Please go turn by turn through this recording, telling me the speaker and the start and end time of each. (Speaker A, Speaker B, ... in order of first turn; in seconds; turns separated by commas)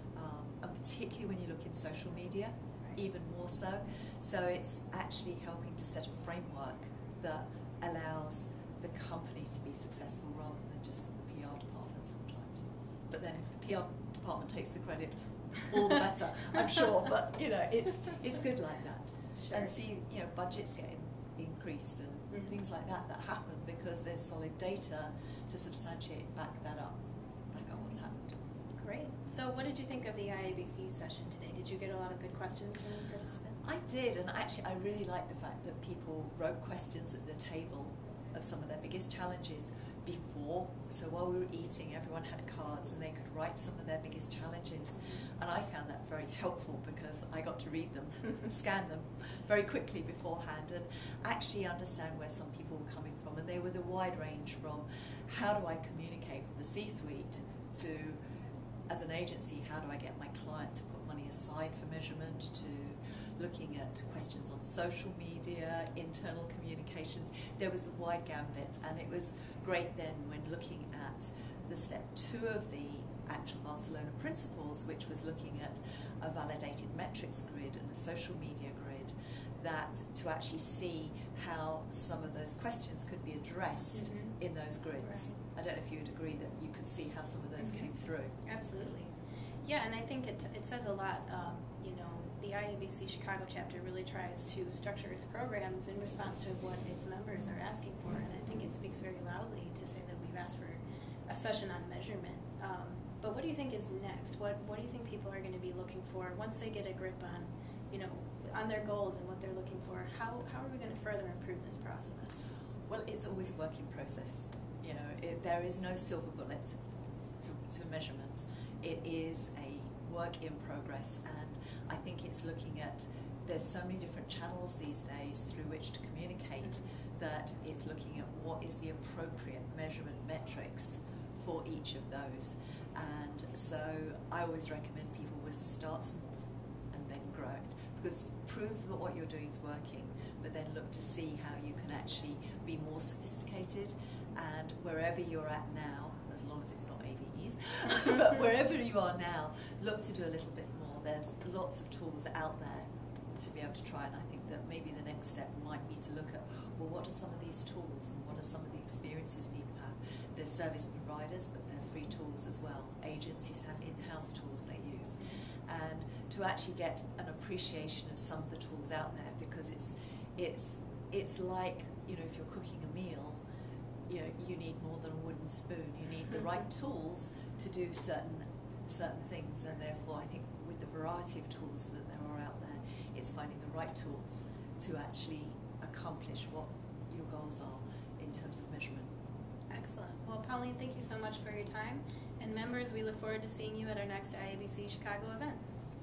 Speaker A: 0.1-27.0, Speaker B: 19.4-19.7, Speaker A: 27.5-28.4, Speaker B: 28.8-33.7, Speaker A: 33.6-58.2, Speaker A: 58.9-88.4, Speaker B: 83.9-84.3, Speaker B: 85.0-85.4, Speaker B: 87.6-87.9, Speaker B: 88.5-89.1, Speaker B: 89.7-112.5, Speaker A: 112.9-116.8, Speaker A: 117.4-173.4, Speaker A: 174.1-189.1, Speaker B: 189.7-195.6